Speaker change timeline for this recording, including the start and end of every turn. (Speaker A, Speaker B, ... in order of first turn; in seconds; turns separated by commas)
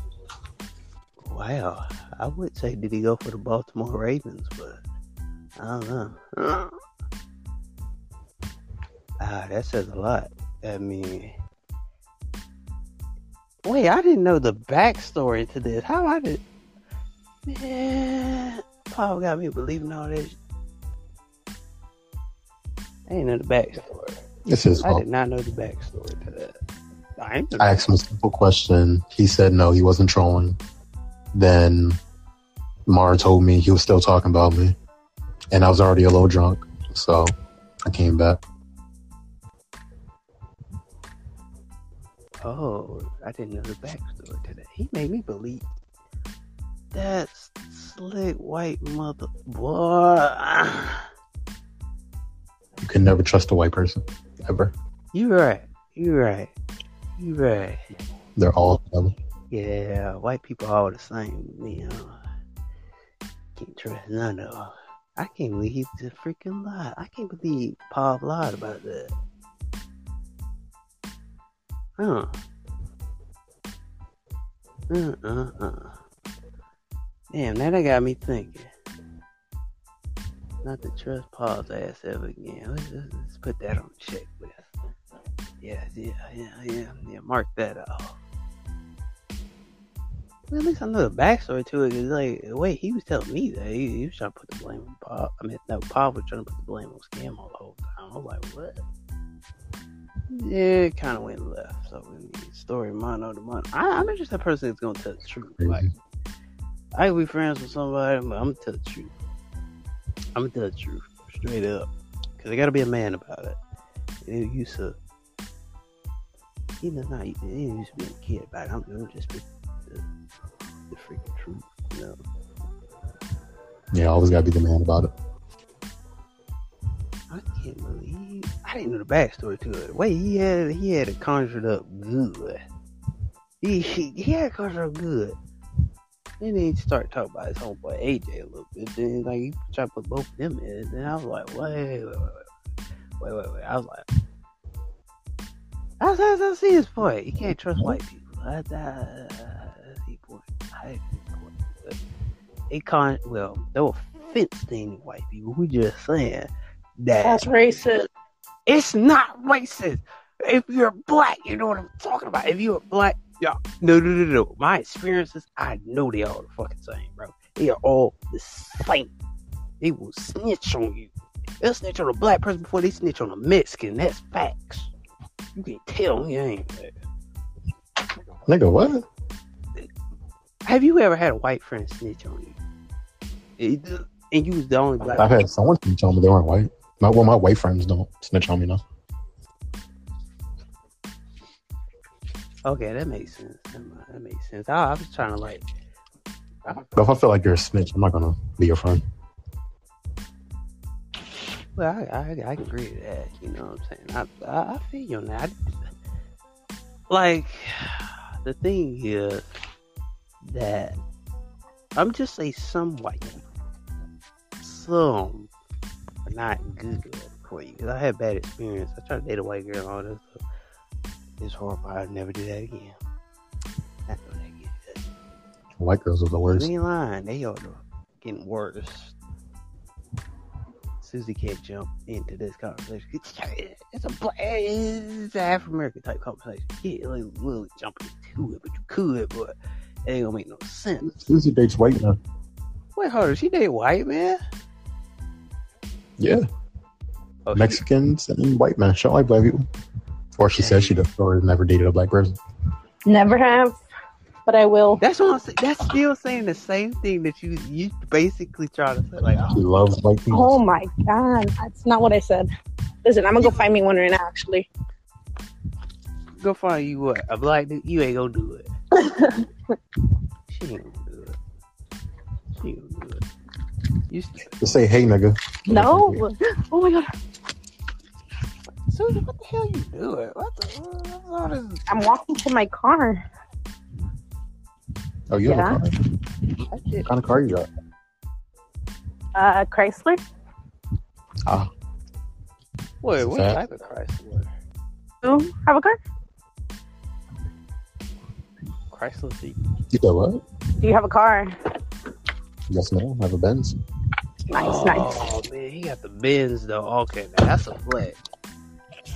Speaker A: 1.2-4.8, Speaker A: 5.6-6.8, Speaker A: 9.2-11.3, Speaker A: 13.7-16.4, Speaker A: 17.5-20.4, Speaker A: 23.1-24.2, Speaker B: 24.5-25.0, Speaker A: 24.8-26.6, Speaker A: 27.2-27.8, Speaker B: 27.6-30.6, Speaker B: 31.3-32.0, Speaker B: 32.9-34.8, Speaker B: 35.5-37.3, Speaker B: 37.9-38.4, Speaker A: 42.4-45.6, Speaker A: 46.9-51.1, Speaker B: 52.8-54.7, Speaker A: 55.1-56.5, Speaker A: 57.2-57.8, Speaker B: 58.4-59.1, Speaker A: 59.5-62.2, Speaker A: 63.6-69.1, Speaker A: 72.0-72.4, Speaker A: 74.9-76.0, Speaker A: 77.3-78.7, Speaker A: 80.6-84.7, Speaker A: 85.6-88.2, Speaker A: 90.5-98.8, Speaker A: 100.3-105.9, Speaker B: 105.6-105.9, Speaker A: 107.0-109.1, Speaker A: 110.3-113.6, Speaker A: 114.2-115.0, Speaker A: 116.8-120.0, Speaker A: 120.9-122.2, Speaker B: 123.9-125.1, Speaker A: 127.3-132.6, Speaker A: 133.6-135.4, Speaker A: 136.4-142.5, Speaker A: 143.2-144.1, Speaker A: 146.0-152.0, Speaker A: 152.7-157.5, Speaker C: 157.2-158.1, Speaker A: 158.7-169.1, Speaker A: 169.8-174.9, Speaker A: 175.6-176.9, Speaker B: 178.5-179.1, Speaker A: 180.7-182.6, Speaker A: 183.6-185.4, Speaker B: 185.2-188.8, Speaker A: 192.7-195.7, Speaker B: 196.9-199.0, Speaker A: 201.8-205.8, Speaker A: 207.1-209.5, Speaker A: 210.4-211.0, Speaker A: 212.0-213.4, Speaker A: 214.6-215.5, Speaker A: 216.3-220.4, Speaker A: 221.4-223.0, Speaker A: 224.1-225.0, Speaker B: 225.8-226.7, Speaker A: 226.5-229.2, Speaker A: 231.0-239.6, Speaker A: 240.1-241.2, Speaker B: 241.2-242.2, Speaker A: 242.9-244.4, Speaker B: 246.2-246.4, Speaker A: 247.5-247.8, Speaker B: 247.6-249.7, Speaker B: 250.4-252.3, Speaker A: 250.6-251.0, Speaker C: 253.1-253.8, Speaker C: 254.5-255.0, Speaker A: 255.0-259.6, Speaker B: 259.5-260.6, Speaker C: 260.3-262.5, Speaker C: 263.0-264.7, Speaker A: 266.4-268.7, Speaker C: 268.9-269.8, Speaker A: 270.5-271.4, Speaker A: 272.6-273.3, Speaker A: 274.1-274.8, Speaker B: 274.6-276.2, Speaker C: 275.7-277.1, Speaker A: 278.9-281.8, Speaker C: 281.9-283.2, Speaker B: 285.3-286.0, Speaker C: 285.4-285.8, Speaker A: 286.7-287.1, Speaker B: 287.1-287.7, Speaker C: 289.4-290.2, Speaker A: 293.0-294.5, Speaker B: 293.2-293.6, Speaker C: 295.2-296.0, Speaker A: 298.9-299.6, Speaker B: 299.9-300.4, Speaker C: 300.8-301.5, Speaker B: 302.7-303.8, Speaker C: 304.5-305.3, Speaker A: 304.5-308.2